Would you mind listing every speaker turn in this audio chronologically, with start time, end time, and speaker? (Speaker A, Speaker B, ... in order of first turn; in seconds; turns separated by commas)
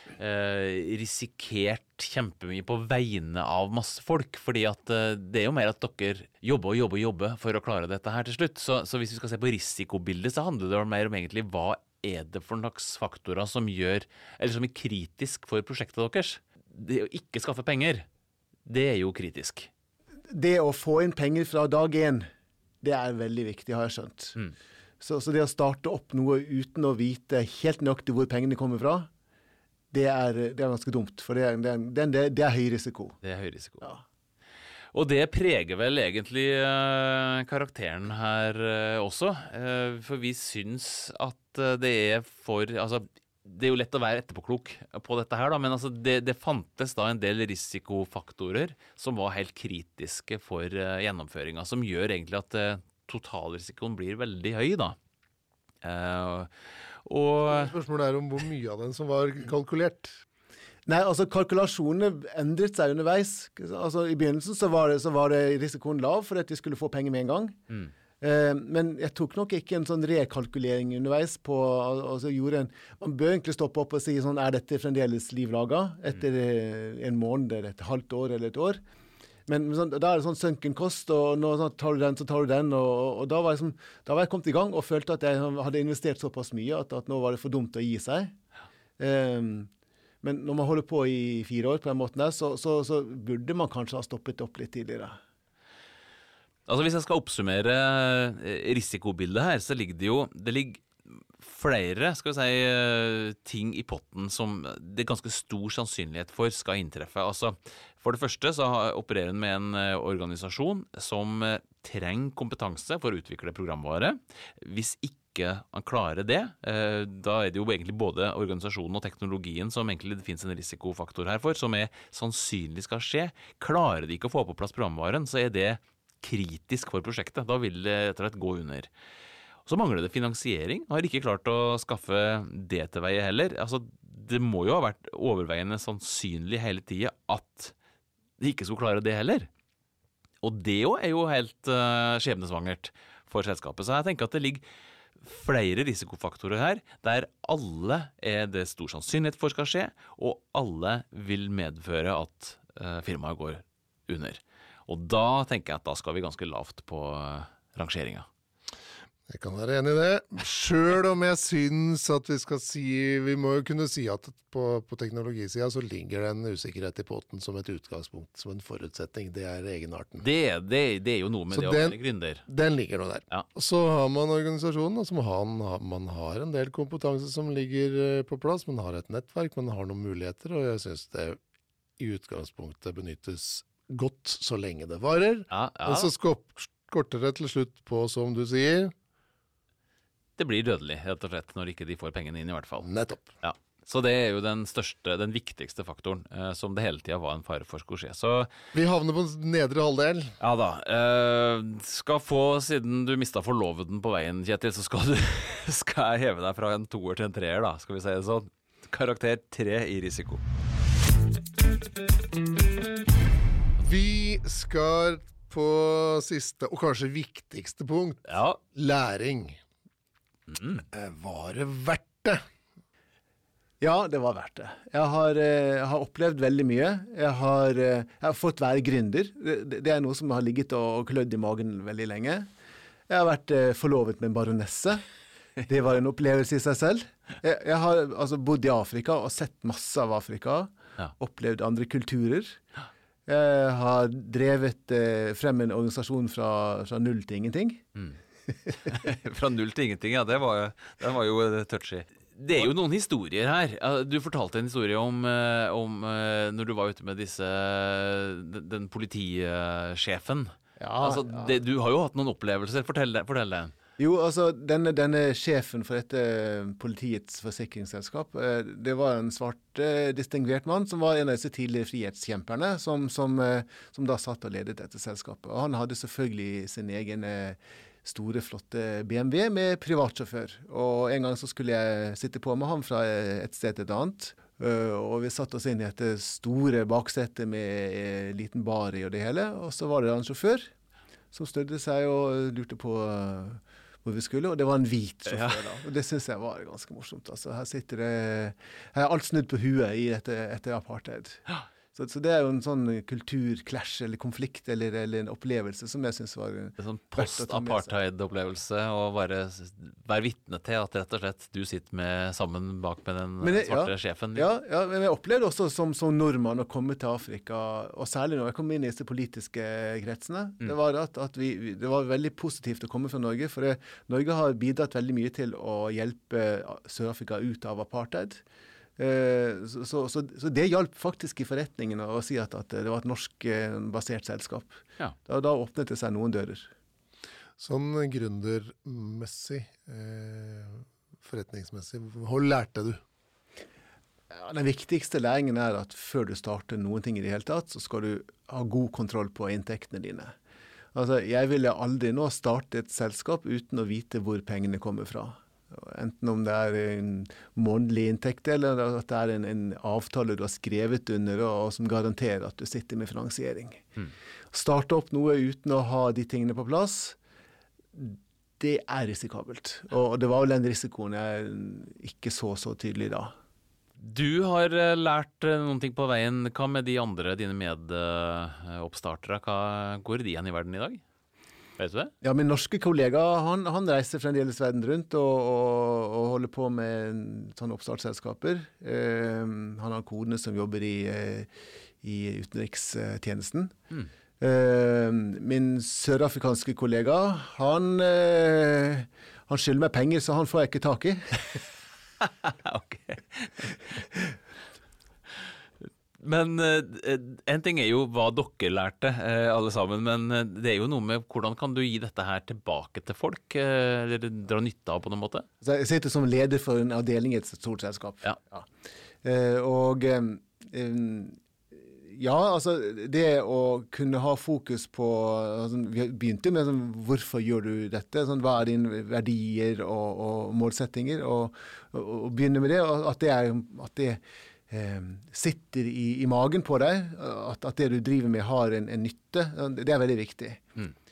Speaker A: 0.2-18.1, Speaker A: 18.7-19.7, Speaker B: 20.3-22.3, Speaker B: 22.8-24.4, Speaker B: 25.0-29.1, Speaker B: 29.9-33.2, Speaker A: 33.2-33.9, Speaker A: 34.9-55.0, Speaker A: 55.8-56.5, Speaker A: 57.0-57.7, Speaker C: 57.5-60.2, Speaker B: 60.9-67.6, Speaker B: 68.2-78.8, Speaker B: 79.5-88.3, Speaker B: 89.0-89.7, Speaker B: 90.2-95.2, Speaker A: 96.7-100.9, Speaker A: 101.4-128.9, Speaker A: 129.7-137.7, Speaker A: 138.4-139.5, Speaker A: 140.4-144.6, Speaker A: 145.2-158.3, Speaker C: 159.3-170.3, Speaker A: 170.2-172.4, Speaker C: 171.5-181.4, Speaker C: 182.0-188.9, Speaker A: 185.5-186.1, Speaker A: 190.4-192.9, Speaker C: 192.8-193.3, Speaker A: 193.4-198.5, Speaker C: 198.7-200.4, Speaker A: 200.4-210.4, Speaker C: 213.8-219.6, Speaker A: 218.3-218.6, Speaker A: 220.5-220.8, Speaker C: 220.9-222.4, Speaker B: 223.8-232.5, Speaker B: 233.1-235.0, Speaker B: 235.6-242.6, Speaker B: 243.3-247.8, Speaker A: 248.8-263.7, Speaker B: 260.8-261.6, Speaker B: 264.0-290.7, Speaker B: 291.3-307.9, Speaker A: 295.3-295.6, Speaker A: 306.8-314.5, Speaker B: 313.4-328.4, Speaker B: 329.0-334.8, Speaker B: 335.3-336.7, Speaker C: 337.6-343.0, Speaker B: 344.3-350.4, Speaker B: 350.9-363.9, Speaker B: 364.5-367.2, Speaker B: 367.9-373.3, Speaker A: 374.0-381.0, Speaker A: 381.8-382.1, Speaker B: 382.2-391.5, Speaker B: 392.0-393.8, Speaker B: 394.4-401.6, Speaker A: 402.2-403.7, Speaker A: 406.2-415.5, Speaker B: 415.6-418.7, Speaker B: 419.2-440.6